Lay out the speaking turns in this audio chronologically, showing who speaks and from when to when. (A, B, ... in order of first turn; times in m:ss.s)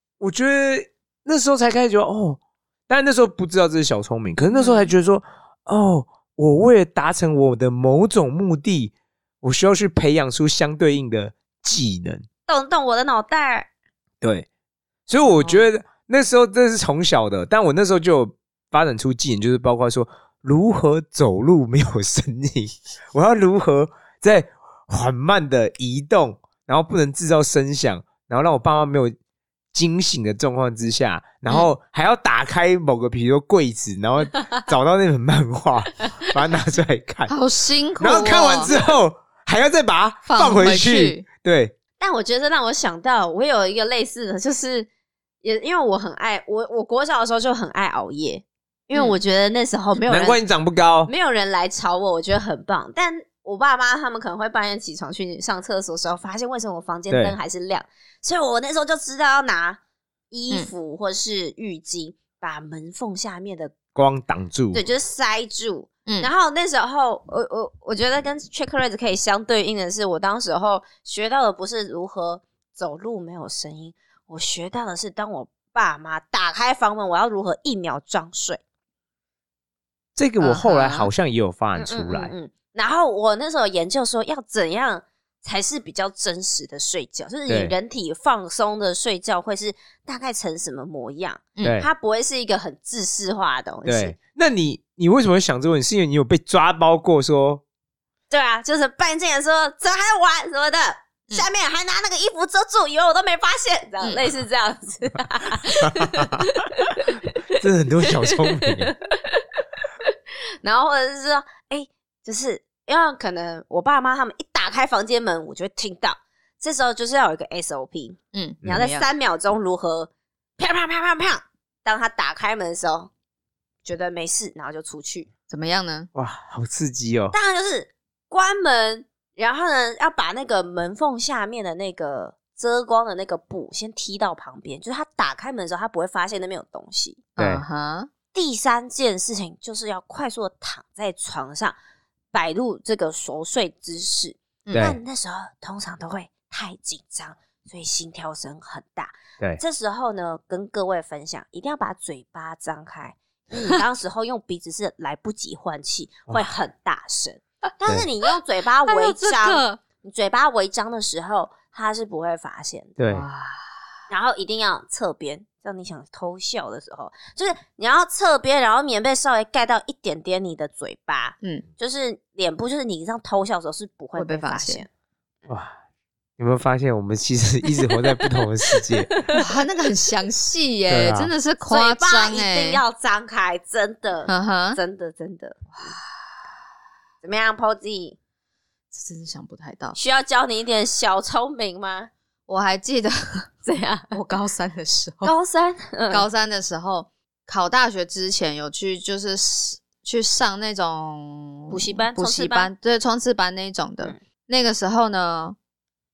0:00.2-0:12.2 A
0:04.5-0:04.9 B
0:12.5-0:13.7 B
0:14.2-0:14.5 A
0:15.1-0:29.1 A
0:15.2-0:15.6 C
0:29.7-0:37.3 A
0:37.3-0:38.7 C
0:38.0-0:41.7 A
0:40.2-0:41.2 C
0:42.0-0:44.9 B
0:45.4-0:50.4 B
0:48.9-0:49.2 C
0:50.0-0:51.1 A
0:51.0-0:59.8 B
0:57.1-0:57.4 A
1:00.3-1:03.8 B
1:03.9-1:04.8 A
1:04.7-1:18.6 B
1:20.2-1:22.3 A
1:20.4-1:21.1 C
1:21.8-1:34.2 B
1:27.5-1:27.7 A
1:31.6-1:31.9 A
1:33.8-1:37.6 A
1:38.3-1:47.4 B
1:45.8-1:46.5 A
1:47.6-1:48.9 A
1:48.0-1:49.4 B
1:50.6-2:03.1 B
1:58.3-1:59.1 C
2:03.8-2:05.3 B
2:05.5-2:06.1 C
2:06.1-2:07.3 A
2:07.3-2:17.2 B
2:17.4-2:18.1 C
2:17.4-2:17.6 A
2:18.3-2:21.8 B
2:22.3-2:43.0 B
2:24.7-2:25.0 A
2:38.8-2:39.8 C
2:43.0-2:43.3 A
2:43.1-2:43.7 C
2:44.1-2:54.9 B
2:54.2-2:54.8 C
2:55.5-2:55.8 A
2:56.4-2:59.1 A
2:58.2-2:59.4 B
2:59.3-3:02.8 C
3:00.9-3:01.3 A
3:01.6-3:05.9 B
3:04.3-3:04.8 C
3:05.7-3:06.1 C
3:07.2-3:08.2 B
3:08.9-3:10.0 C
3:09.9-3:12.1 B
3:12.5-3:13.5 C
3:13.6-3:14.1 B
3:14.1-3:15.3 C
3:15.2-3:16.2 B
3:16.1-3:25.6 C
3:21.7-3:22.7 B